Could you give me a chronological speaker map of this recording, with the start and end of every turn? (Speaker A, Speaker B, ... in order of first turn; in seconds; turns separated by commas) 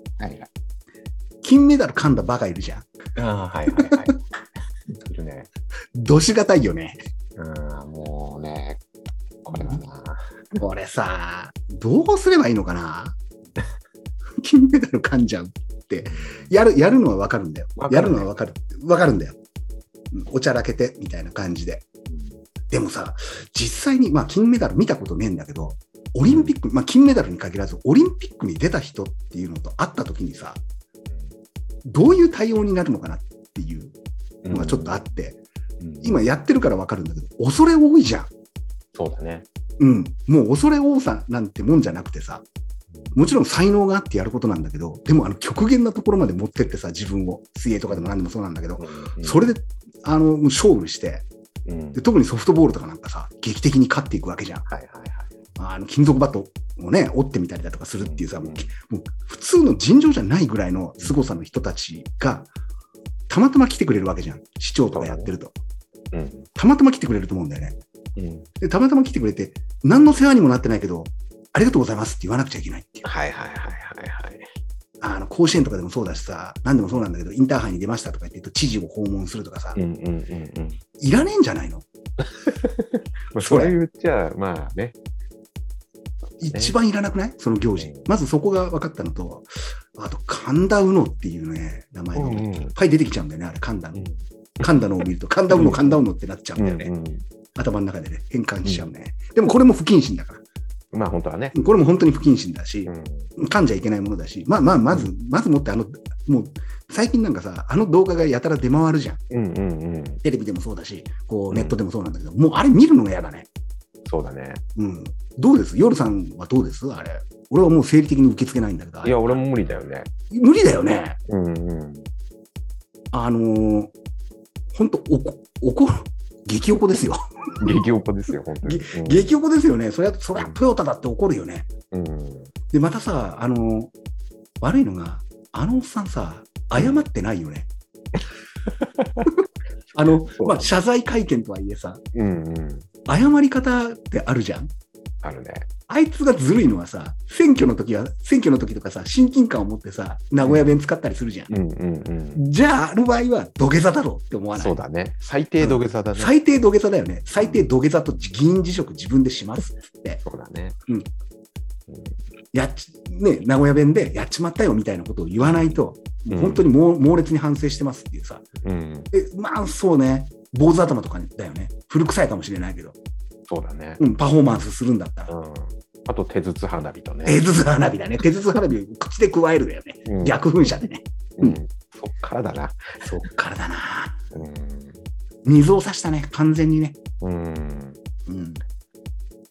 Speaker A: 0.2-0.5, Speaker B: 1.4-2.9, Speaker A: 3.2-4.2, Speaker B: 3.7-4.1, Speaker A: 5.0-5.5, Speaker B: 5.9-7.0, Speaker A: 7.4-8.8, Speaker A: 9.4-10.2, Speaker B: 9.5-9.8, Speaker B: 10.5-13.2, Speaker B: 14.4-19.4, Speaker A: 16.0-16.5, Speaker A: 17.8-18.3, Speaker B: 20.1-21.9, Speaker A: 22.1-22.4, Speaker B: 22.7-30.6, Speaker A: 26.2-26.5, Speaker B: 31.9-34.0, Speaker A: 34.4-35.0, Speaker B: 34.5-35.4, Speaker A: 35.8-36.2, Speaker B: 36.0-38.3, Speaker A: 38.9-39.5, Speaker B: 39.8-42.4, Speaker B: 43.1-51.2, Speaker A: 48.8-49.5, Speaker A: 51.7-52.0, Speaker B: 51.9-54.6, Speaker A: 54.7-55.3, Speaker B: 55.6-62.5, Speaker A: 58.0-58.7, Speaker A: 61.0-61.3, Speaker B: 63.3-65.5, Speaker A: 64.9-65.3, Speaker A: 66.1-66.5, Speaker B: 66.5-67.8, Speaker A: 68.2-68.5, Speaker B: 68.6-73.1, Speaker A: 73.0-74.5, Speaker B: 75.0-79.8, Speaker A: 79.8-80.8, Speaker B: 81.0-81.8, Speaker A: 82.4-84.9, Speaker B: 83.4-83.8, Speaker B: 86.4-94.1, Speaker A: 87.8-88.1, Speaker A: 92.1-92.7, Speaker A: 93.9-94.7, Speaker B: 94.6-96.9, Speaker A: 95.5-96.0, Speaker A: 96.6-97.2, Speaker B: 97.5-100.4, Speaker A: 98.6-98.9, Speaker A: 100.9-101.5, Speaker B: 101.5-109.2, Speaker A: 102.9-103.3, Speaker A: 109.3-110.2, Speaker B: 110.2-113.5, Speaker A: 111.5-111.8, Speaker A: 114.0-114.6, Speaker B: 114.8-119.4, Speaker A: 119.0-120.1, Speaker B: 120.3-121.2, Speaker A: 121.3-122.1, Speaker B: 123.1-123.9, Speaker B: 124.7-127.8, Speaker A: 127.6-129.3, Speaker B: 128.6-131.7, Speaker A: 131.9-132.5, Speaker B: 132.7-133.9, Speaker B: 134.6-137.7, Speaker A: 138.7-139.3, Speaker B: 139.9-142.0, Speaker A: 140.1-140.7, Speaker A: 142.1-142.9, Speaker B: 143.1-144.7, Speaker A: 145.2-145.7, Speaker B: 145.9-151.5, Speaker A: 150.4-150.7, Speaker A: 151.5-152.4, Speaker B: 152.3-154.8, Speaker A: 154.5-156.3, Speaker B: 155.6-160.2, Speaker A: 157.4-157.6, Speaker A: 160.2-160.8, Speaker A: 161.9-162.1, Speaker B: 162.5-168.4, Speaker A: 165.4-166.6, Speaker A: 168.6-169.1, Speaker B: 169.1-172.9, Speaker A: 173.5-174.0, Speaker B: 174.0-175.3, Speaker A: 175.3-177.4, Speaker B: 177.2-181.6, Speaker A: 180.1-180.3, Speaker A: 181.4-182.8, Speaker B: 183.0-184.2, Speaker A: 184.3-185.0, Speaker B: 185.4-187.0, Speaker A: 187.2-188.0, Speaker B: 188.3-188.6